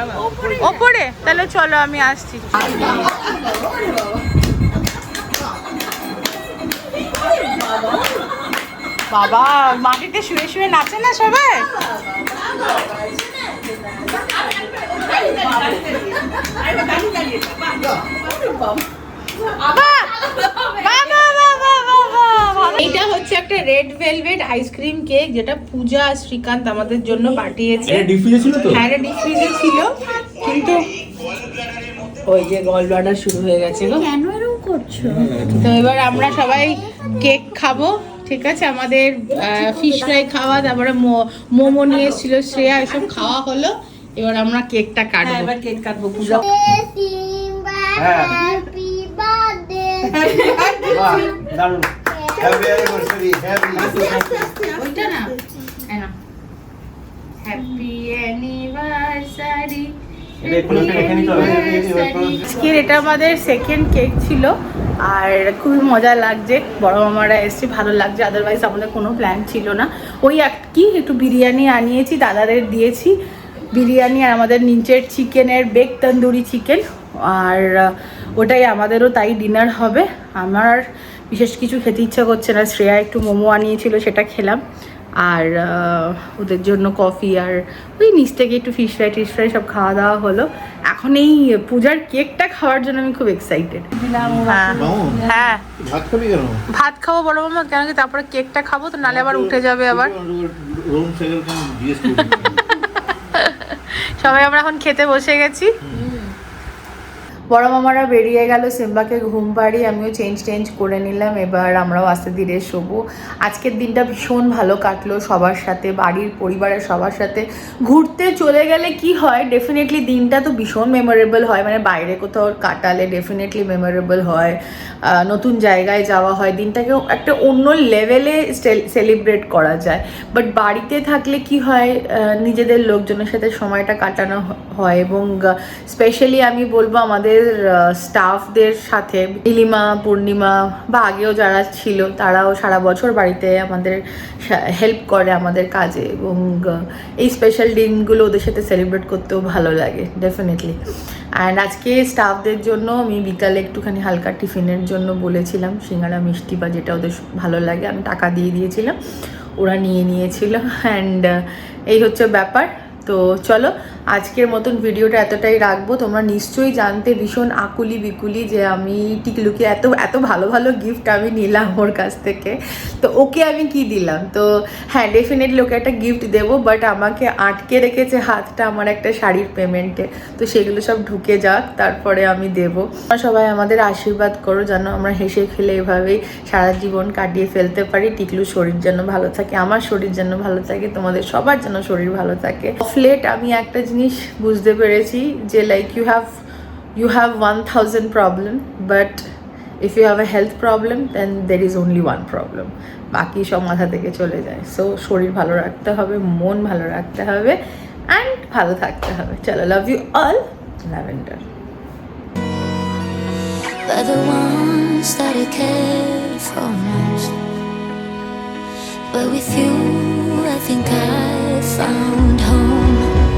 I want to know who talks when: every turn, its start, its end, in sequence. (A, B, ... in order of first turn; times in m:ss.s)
0:00.2-0:00.8 A
0:00.6-0:03.2 B
0:02.6-0:03.0 A
0:07.6-0:07.9 A
0:09.1-0:11.7 B
0:12.0-0:18.8 A
0:19.6-0:20.1 B
0:20.5-0:22.8 A
0:20.7-0:21.8 B
0:22.6-0:28.1 B
0:27.8-0:28.8 C
0:28.7-0:30.8 B
0:32.2-0:34.1 B
0:33.9-0:35.0 D
0:35.0-0:35.6 C
0:35.5-0:45.5 B
0:36.4-0:37.5 D
0:41.8-0:42.2 A
0:42.7-0:43.3 A
0:45.2-0:46.5 A
0:46.2-0:51.4 D
0:48.0-0:48.4 C
0:50.2-0:50.7 A
0:50.3-0:51.1 B
0:50.9-0:51.2 E
0:50.9-0:51.9 C
0:52.0-0:53.2 D
0:52.4-0:54.1 E
0:53.7-0:55.3 A
0:54.0-0:54.4 D
0:54.7-0:55.3 B
0:55.9-0:56.1 B
0:57.4-0:59.9 B
1:00.4-1:02.4 C
1:00.4-1:13.1 B
1:01.3-1:01.6 E
1:13.7-1:20.8 B
1:21.3-1:24.6 B
1:25.2-1:33.9 B
1:33.9-1:35.5 A
1:34.2-1:35.2 E
1:34.4-1:35.6 B
1:35.8-1:36.6 E
1:36.8-1:40.1 B
1:39.0-1:42.6 E
1:42.8-1:45.7 B
1:47.5-2:38.9 B
2:39.6-2:41.3 B
2:41.9-3:16.3 B
3:17.0-3:19.2 B
3:19.8-3:27.6 B
3:28.1-3:31.4 B
3:33.8-3:37.3 F
3:39.1-3:43.1 F